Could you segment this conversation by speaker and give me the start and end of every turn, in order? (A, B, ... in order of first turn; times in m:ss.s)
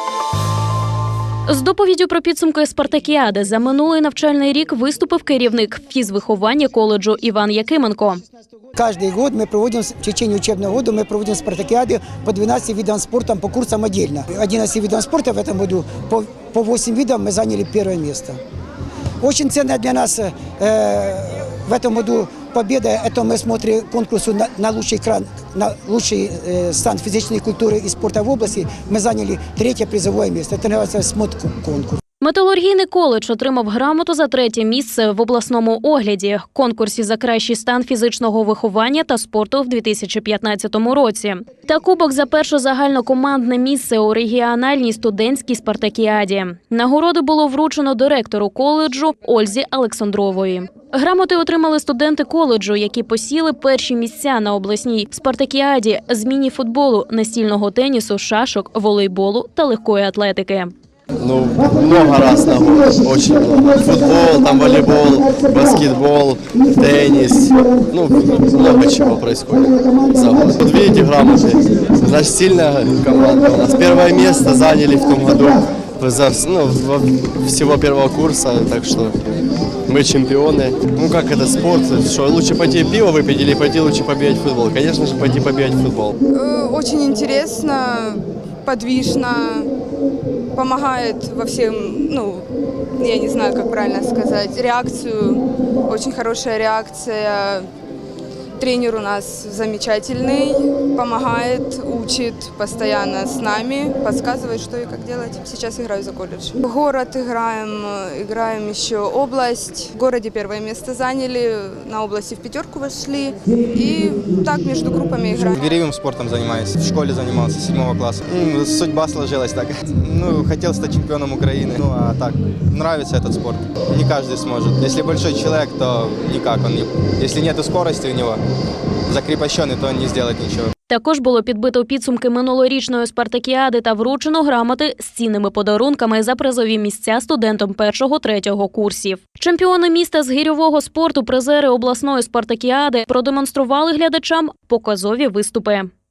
0:01.5-0:08.2 A
0:08.7-0:18.4 B
0:19.2-0:32.0 B
0:32.2-1:00.7 A
1:01.2-1:19.2 C
1:19.9-1:26.2 C
1:26.3-1:29.7 D
1:30.6-1:32.5 D
1:33.0-1:37.7 D
1:38.6-1:55.7 D
1:55.5-2:08.4 E
2:09.1-2:10.7 E
2:10.9-2:25.9 A